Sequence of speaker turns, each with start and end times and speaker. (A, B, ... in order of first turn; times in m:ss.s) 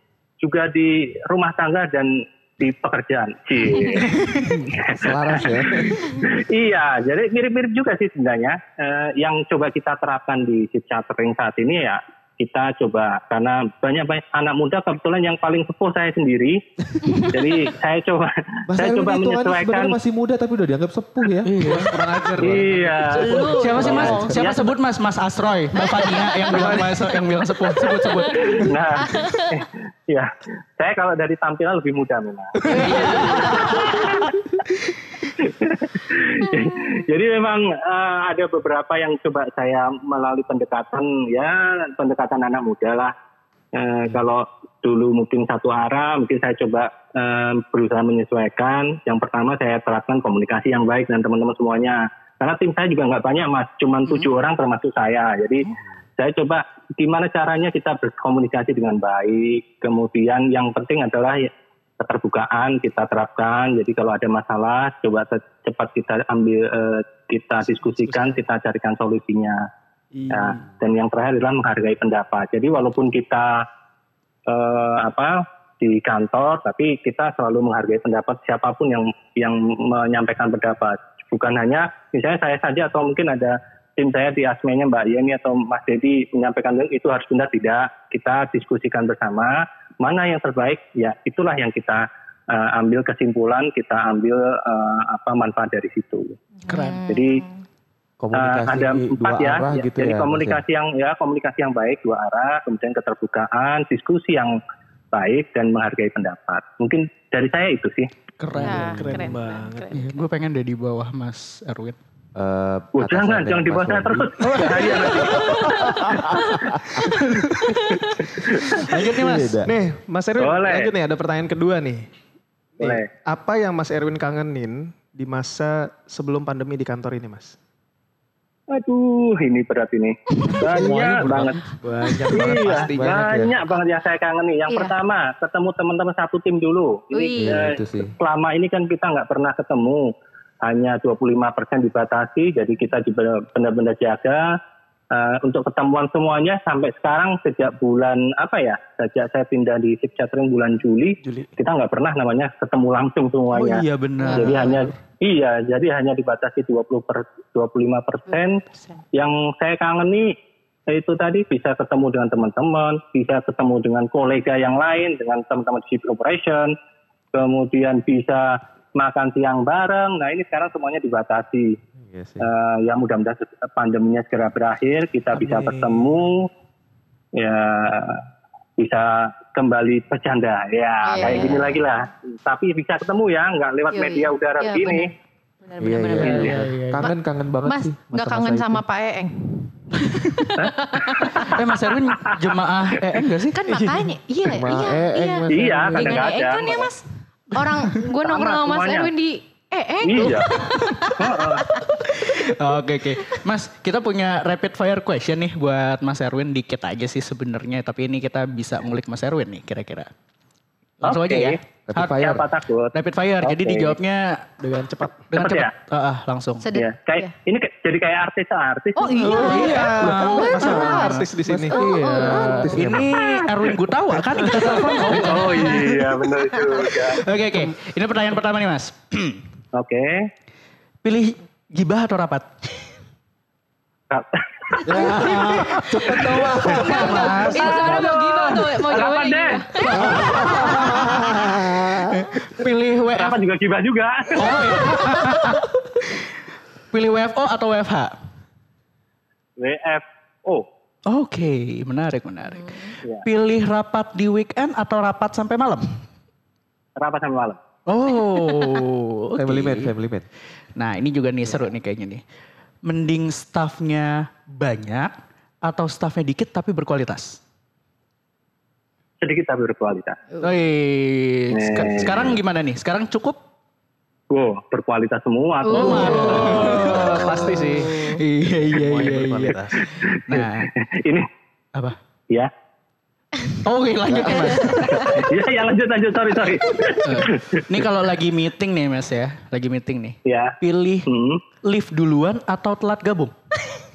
0:00.4-0:16.6 A
0:04.1-0:04.7 B
0:04.9-0:06.1 C
0:17.2-0:20.0 A
0:18.7-0:21.5 C
0:21.4-0:21.9 B
0:21.6-0:23.5 D
0:22.4-0:24.7 A
0:23.1-0:24.4 E
0:23.3-0:28.6 B
0:23.8-0:24.3 C
0:25.8-0:26.3 E
0:26.5-0:26.9 D
0:28.3-0:29.6 E
0:28.3-0:34.3 A
0:32.7-0:34.1 E
0:32.7-0:33.2 D
0:35.4-0:43.1 A
0:43.7-1:09.6 A
1:10.2-1:10.6 D
1:10.3-1:13.6 A
1:14.5-1:36.4 A
1:36.6-1:37.6 E
1:36.7-1:37.0 B
1:37.0-1:37.4 A
1:38.2-1:40.6 C
1:38.3-1:44.6 A
1:45.1-1:48.1 A
1:48.4-1:49.3 B
1:48.5-1:50.0 D
1:48.6-1:50.1 E
1:49.9-1:52.0 B
1:52.3-1:57.0 C
1:53.0-1:55.9 A
1:54.5-1:55.8 D
1:55.1-1:56.6 E
1:57.6-1:58.1 E
1:58.2-1:58.9 A
1:58.8-1:59.6 B
1:59.1-1:59.7 C
1:59.6-2:02.1 D
2:00.4-2:00.9 A
2:02.8-2:07.6 D
2:02.8-2:03.1 A
2:08.7-2:11.7 A
2:10.7-2:13.5 C
2:11.8-2:13.0 D
2:12.2-2:24.5 A
2:14.7-2:14.9 E
2:17.1-2:17.6 E
2:17.4-2:18.1 C
2:25.1-2:38.6 A
2:33.5-2:35.0 B
2:34.2-2:34.8 E
2:39.1-2:40.3 A
2:40.9-2:46.7 A
2:47.3-2:51.8 A
2:52.0-2:52.5 C
2:52.4-2:56.5 A
2:55.4-2:55.7 C
2:57.3-2:58.2 A
2:58.8-3:05.1 A
3:01.0-3:01.7 E
3:03.9-3:07.1 E
3:05.8-3:08.8 C
3:06.1-3:07.1 B
3:07.6-3:11.5 E
3:10.0-3:10.5 B
3:10.6-3:11.6 A
3:11.5-3:14.0 B
3:12.1-3:12.5 A
3:13.5-3:22.5 E
3:14.4-3:16.3 C
3:15.5-3:16.9 A
3:18.2-3:19.1 A
3:20.0-3:21.7 A
3:22.0-3:30.1 B
3:31.0-3:32.2 B
3:31.0-3:31.6 A
3:31.9-3:32.5 C
3:32.2-3:34.0 A
3:32.9-3:36.6 B
3:34.6-3:35.2 D
3:35.3-3:35.7 A
3:36.6-3:37.3 E
3:36.7-3:39.6 A
3:39.0-3:42.8 E
3:39.2-3:41.8 D
3:39.2-3:46.0 B
3:40.5-3:43.1 C
3:45.1-3:47.2 A
3:47.2-3:49.4 B
3:49.7-3:50.3 A
3:51.0-3:52.5 B
3:54.1-3:55.4 A
3:54.8-3:58.1 C
3:54.9-4:01.3 E
3:55.2-3:55.8 B
3:56.3-3:58.6 B
3:57.9-4:00.1 A
3:59.9-4:02.4 C
4:00.0-4:01.2 B
4:02.1-4:03.4 B
4:03.2-4:04.6 A
4:04.4-4:06.2 B
4:06.9-4:08.2 B
4:09.6-4:10.6 A
4:11.1-4:16.0 B
4:12.6-4:12.9 E
4:17.0-4:17.6 A
4:17.9-4:19.9 B
4:19.3-4:20.2 C
4:20.8-4:22.2 B
4:22.8-4:25.1 B
4:25.6-4:27.4 B
4:29.2-4:30.2 A
4:30.4-4:33.4 B
4:31.5-4:32.3 A
4:34.3-4:36.6 A
4:35.6-4:36.9 E
4:35.7-4:40.7 B
4:35.8-4:38.1 D
4:36.6-4:37.8 C
4:38.7-4:39.9 D
4:39.8-4:41.3 A
4:43.6-4:45.2 B
4:44.1-4:44.5 C
4:44.4-4:45.1 E
4:44.8-4:47.7 A
4:47.0-4:51.1 B
4:50.2-4:51.4 A
4:51.6-4:53.3 B